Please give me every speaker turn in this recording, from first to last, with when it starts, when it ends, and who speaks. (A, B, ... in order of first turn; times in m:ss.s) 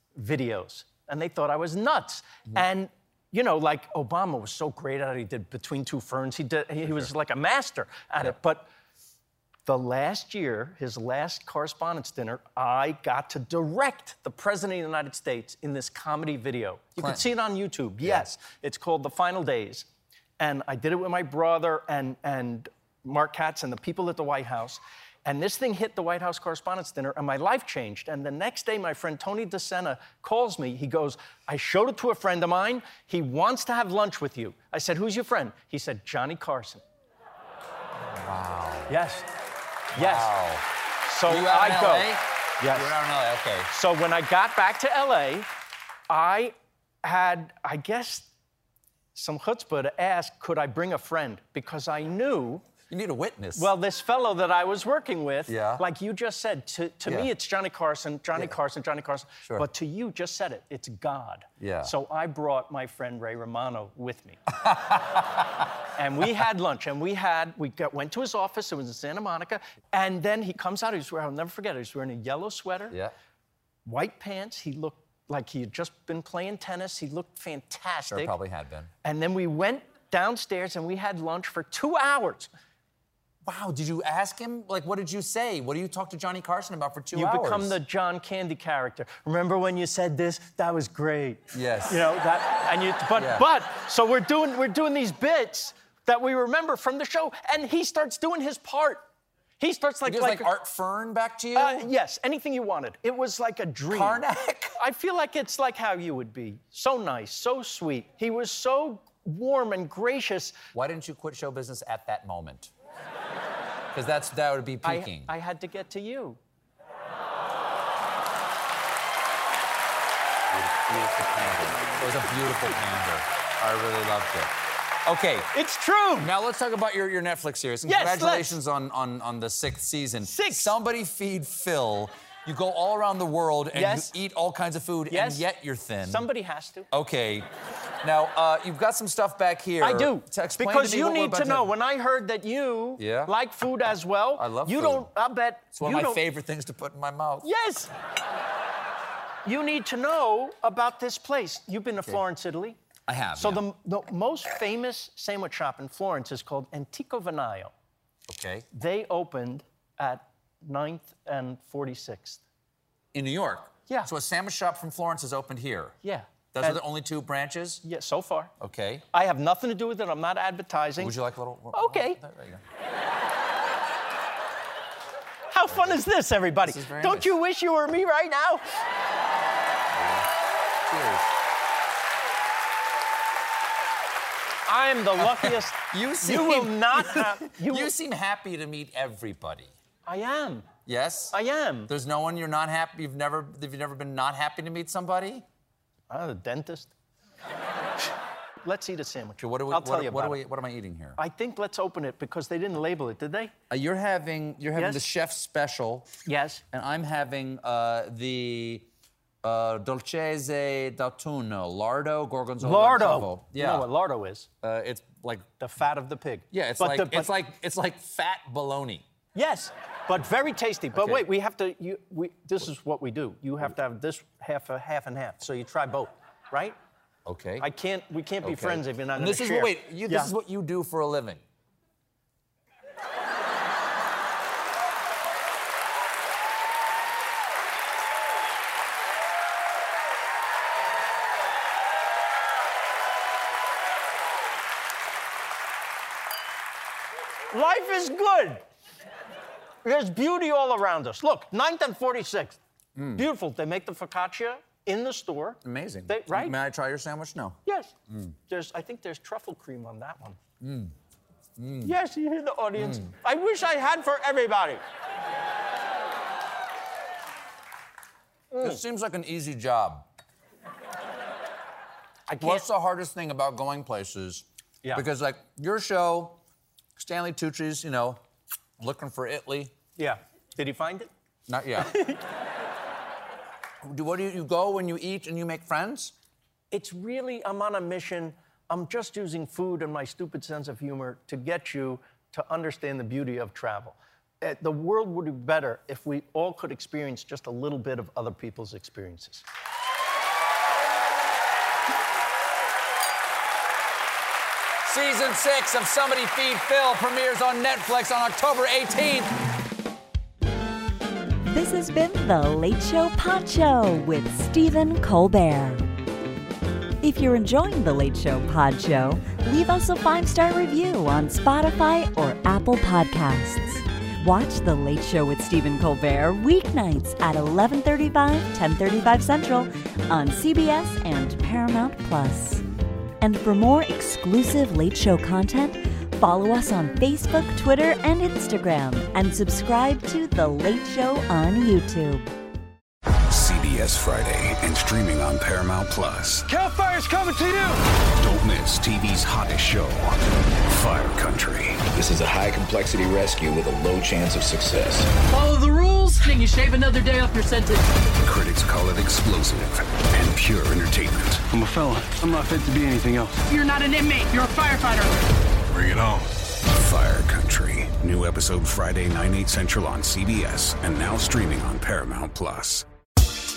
0:00.2-0:08.7 A
0:09.7-0:19.9 A
0:18.0-0:18.3 B
0:20.4-0:36.8 A
0:38.2-0:39.0 B
0:38.9-0:39.3 A
0:39.9-0:40.4 A
0:40.0-0:40.7 B
0:41.0-0:43.0 A
0:41.3-0:43.7 B
0:43.7-0:45.5 A
0:46.1-0:48.3 A
0:49.2-0:52.7 A
0:52.9-0:53.7 B
0:53.6-1:04.4 A
0:55.5-0:55.8 B
1:01.6-1:01.9 B
1:04.8-1:05.2 B
1:06.0-1:13.0 A
1:13.8-1:18.4 A
1:18.1-1:18.9 B
1:19.0-1:22.5 A
1:23.4-1:27.8 B
1:27.1-1:39.0 A
1:31.5-1:32.1 B
1:33.1-1:33.5 B
1:39.6-1:40.5 A
1:40.0-1:41.9 B
1:41.6-1:44.2 A
1:43.9-1:44.7 B
1:44.8-1:50.6 A
1:50.7-1:52.7 B
1:53.9-1:55.3 B
1:54.8-1:56.4 A
2:00.5-2:04.5 B
2:05.0-2:05.5 B
2:05.5-2:06.3 A
2:06.2-2:16.3 B
2:07.8-2:08.6 A
2:10.2-2:10.8 A
2:13.7-2:14.1 A
2:15.1-2:15.5 A
2:16.0-2:16.9 A
2:16.9-2:17.5 B
2:18.0-2:21.7 B
2:19.8-2:26.2 A
2:23.0-2:23.3 B
2:24.4-2:25.1 B
2:25.7-2:27.5 B
2:27.4-2:27.9 A
2:29.4-2:32.8 A
2:33.1-2:33.6 B
2:33.4-2:37.7 A
2:38.3-2:38.7 B
2:38.7-2:42.4 A
2:43.1-2:46.0 B
2:46.0-2:46.8 A
2:46.5-2:47.8 B
2:47.8-2:48.5 A
2:48.6-2:49.0 B
2:49.1-2:51.2 A
2:51.0-2:52.6 B
2:51.7-2:52.2 A
2:55.5-2:58.6 A
2:55.7-2:56.0 B
2:56.6-2:57.3 B
2:59.9-3:00.3 B
3:00.9-3:01.3 B
3:04.7-3:07.9 A
3:05.2-3:09.7 B
3:10.1-3:10.7 A
3:10.9-3:11.4 B
3:11.3-3:11.9 A
3:11.9-3:15.4 B
3:16.1-3:16.9 A
3:18.6-3:20.4 A
3:19.4-3:21.2 B
3:21.2-3:23.5 A
3:23.7-3:26.1 B
3:24.8-3:25.1 A
3:26.2-3:26.6 A
3:26.7-3:28.9 B
3:29.4-3:33.9 B
3:32.6-3:34.5 A
3:34.6-3:35.4 B
3:35.6-3:37.3 A
3:36.5-3:39.0 B
3:39.3-3:46.8 A
3:40.9-3:41.3 B
3:47.3-3:47.7 B
3:47.6-3:50.3 A
3:48.4-3:51.4 B
4:07.5-4:08.6 A
4:09.8-4:12.6 A
4:13.0-4:13.2 B
4:13.2-4:16.6 A
4:15.6-4:17.6 B
4:17.6-4:18.0 A
4:18.5-4:20.4 A
4:20.6-4:20.9 B
4:21.6-4:22.0 B
4:21.8-4:24.8 A
4:22.8-4:23.1 B
4:28.5-4:28.8 A
4:28.6-4:30.1 B
4:32.3-4:32.7 A
4:32.4-4:36.4 B
4:37.0-4:38.2 B
4:38.8-4:39.7 B
4:40.0-4:41.1 A
4:41.5-4:42.1 B
4:41.8-4:42.2 A
4:43.8-4:46.1 B
4:46.7-4:59.4 A
5:04.8-5:09.3 B
5:11.5-5:15.8 C
5:17.0-5:32.6 C
5:33.2-5:42.2 C
5:43.3-5:46.4 D
5:46.5-5:47.7 E
5:48.2-5:50.2 D
5:50.7-5:51.8 D
5:52.0-5:55.2 F
5:55.3-5:57.9 G
5:58.2-6:01.4 D
6:01.5-6:03.5 E
6:03.4-6:05.1 G
6:05.7-6:12.8 D